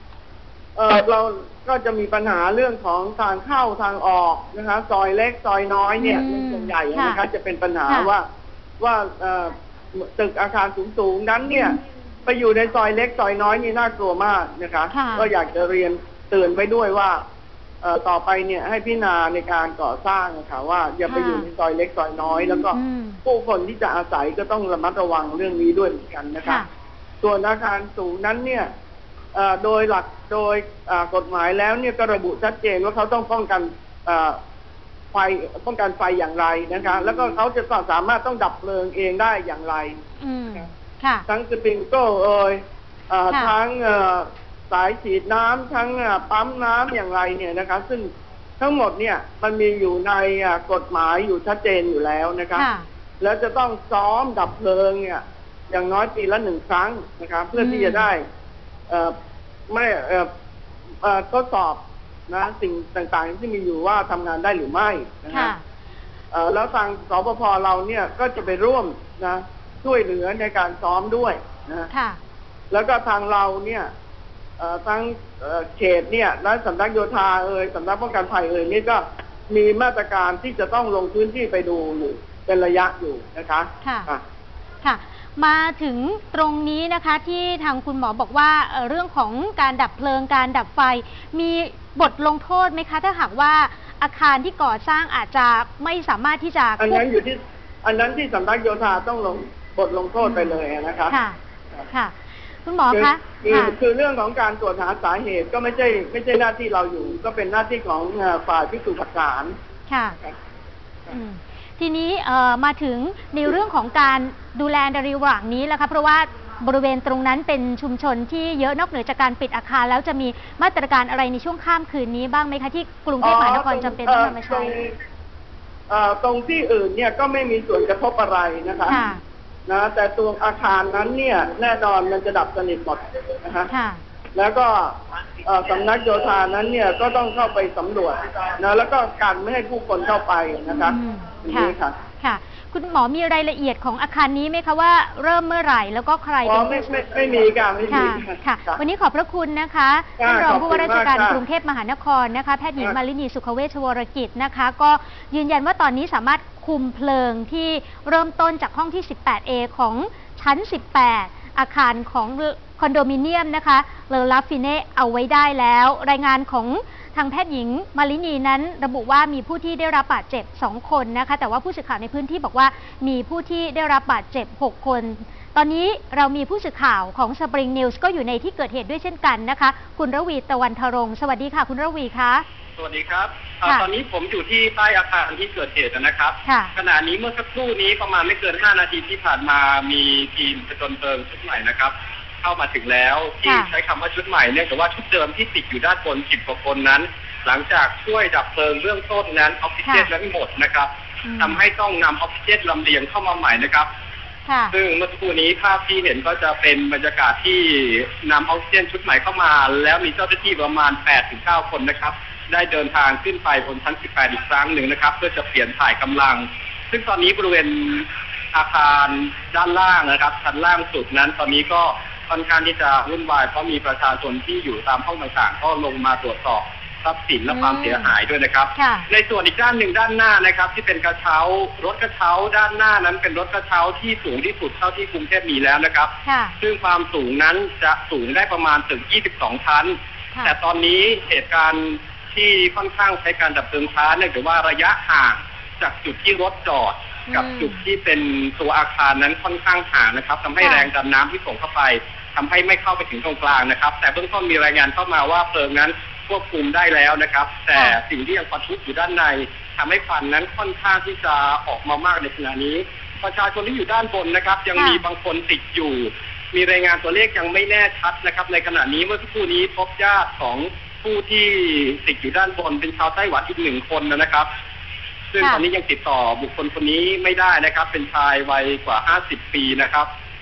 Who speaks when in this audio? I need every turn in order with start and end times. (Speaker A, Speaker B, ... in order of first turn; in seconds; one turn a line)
Speaker A: 0.7-8.3
Speaker B: 6.0-7.2
Speaker A: 8.8-17.2
Speaker B: 14.9-15.3
Speaker A: 17.8-26.6
Speaker B: 21.1-21.5
Speaker B: 22.7-23.2
Speaker B: 26.4-26.7
Speaker A: 27.2-28.7
Speaker A: 29.3-34.4
Speaker A: 35.1-40.0
Speaker B: 40.2-41.2
Speaker A: 41.3-52.6
Speaker B: 52.5-52.8
Speaker A: 53.2-58.3
Speaker B: 57.5-58.1
Speaker A: 58.9-59.1
Speaker A: 59.7-60.3
Speaker A: 61.0-65.5
Speaker B: 65.3-65.6
Speaker A: 66.3-71.9
Speaker B: 71.9-72.2
Speaker A: 72.7-73.9
Speaker A: 74.6-84.2
Speaker B: 83.8-84.1
Speaker B: 84.8-97.0
Speaker A: 96.8-101.2
Speaker B: 100.2-100.6
Speaker B: 101.1-101.4
Speaker B: 102.7-103.8
Speaker A: 102.9-109.6
Speaker B: 109.9-110.2
Speaker B: 111.1-124.7
Speaker A: 123.2-125.0
Speaker A: 125.9-129.0
Speaker B: 128.9-129.2
Speaker A: 129.7-133.7
Speaker B: 133.7-134.0
Speaker A: 134.3-142.0
Speaker B: 140.8-146.8
Speaker A: 146.4-148.8
Speaker B: 147.9-182.4
Speaker A: 150.2-151.4
Speaker C: 182.8-203.9
Speaker B: 186.4-186.7
Speaker B: 193.4-193.7
Speaker B: 199.8-200.1
Speaker B: 201.2-201.6
Speaker B: 204.5-204.7
Speaker C: 204.7-274.5
Speaker B: 227.5-228.1
Speaker B: 228.8-229.1
Speaker B: 236.2-236.5
Speaker B: 247.3-247.8
Speaker B: 250.6-250.9
Speaker B: 264.8-265.0
Speaker C: 275.3-280.1